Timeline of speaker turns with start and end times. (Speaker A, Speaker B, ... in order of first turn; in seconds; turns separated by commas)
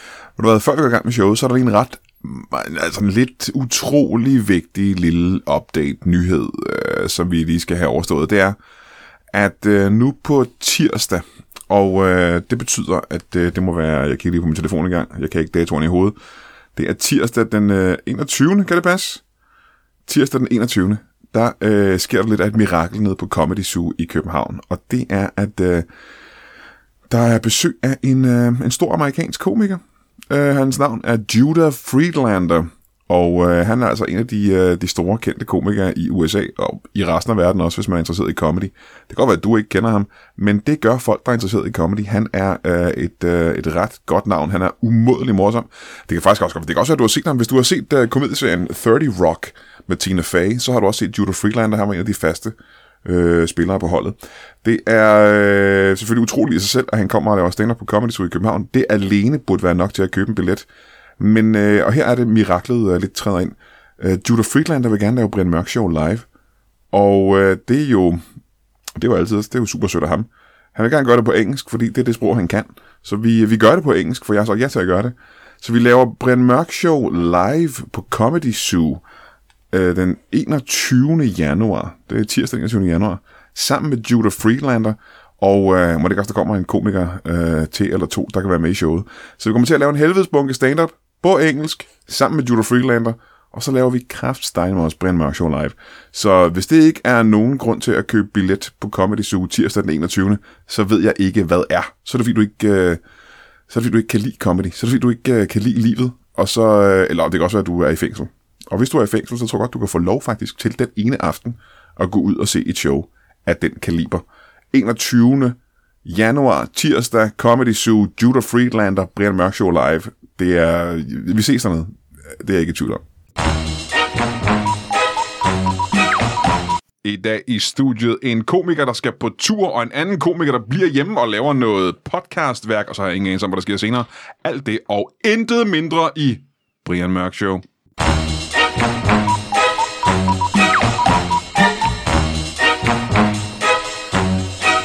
Speaker A: 0.4-8.6, Speaker A: 9.3-16.1, Speaker A: 16.7-19.2, Speaker A: 20.1-25.9, Speaker A: 27.1-60.7, Speaker A: 61.2-66.3, Speaker A: 66.9-68.2, Speaker A: 69.0-79.0, Speaker A: 79.7-103.0, Speaker A: 103.7-123.0, Speaker A: 127.0-137.6